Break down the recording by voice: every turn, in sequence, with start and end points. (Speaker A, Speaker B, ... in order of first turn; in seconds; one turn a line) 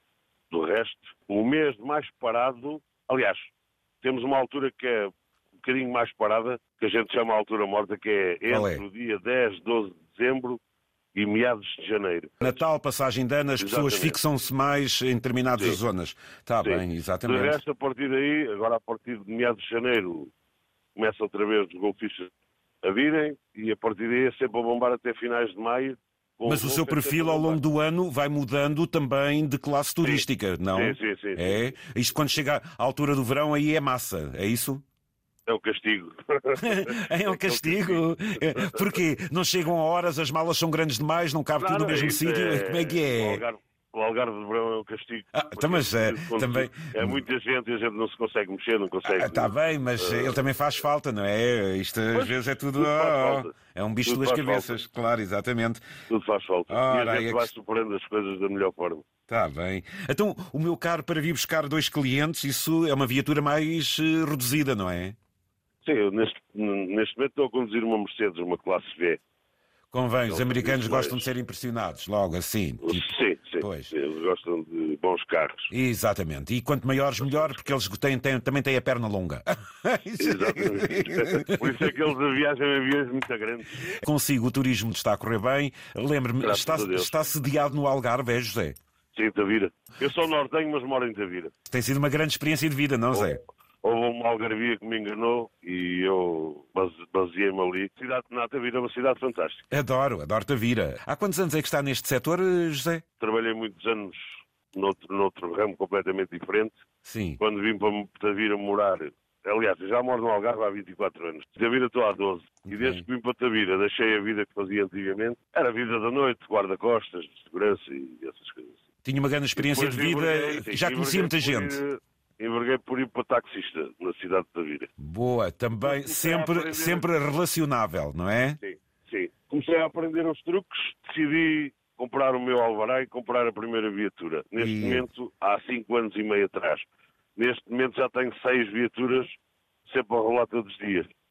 Speaker A: 0.5-3.5
Speaker A: 4.0-10.6
Speaker B: 8.5-8.8
Speaker A: 11.1-12.6
Speaker B: 12.4-17.6
Speaker A: 13.6-14.2
Speaker A: 16.6-20.3
Speaker A: 20.9-22.3
Speaker A: 22.8-27.6
Speaker B: 26.4-34.8
Speaker A: 30.0-31.7
Speaker A: 35.5-39.0
Speaker B: 36.6-43.4
Speaker A: 41.6-50.4
Speaker B: 45.3-47.2
Speaker B: 49.0-55.8
Speaker A: 52.1-53.5
Speaker A: 54.0-54.8
Speaker A: 56.1-59.0
Speaker B: 56.7-57.5
Speaker B: 59.3-65.2
Speaker A: 65.8-69.2
Speaker B: 69.9-73.9
Speaker A: 70.3-71.3
Speaker A: 72.8-75.7
Speaker B: 75.7-81.9
Speaker A: 80.2-83.9
Speaker B: 83.9-88.8
Speaker A: 86.4-87.3
Speaker A: 89.1-91.5
Speaker B: 91.7-93.4
Speaker A: 93.1-99.7
Speaker B: 99.7-103.0
Speaker A: 103.2-106.7
Speaker B: 107.0-107.4
Speaker A: 107.4-118.8
Speaker B: 112.7-113.0
Speaker B: 119.0-121.8
Speaker A: 119.5-124.9
Speaker B: 125.0-128.6
Speaker A: 125.8-127.1
Speaker A: 128.6-139.3
Speaker B: 134.6-135.1
Speaker A: 139.9-141.1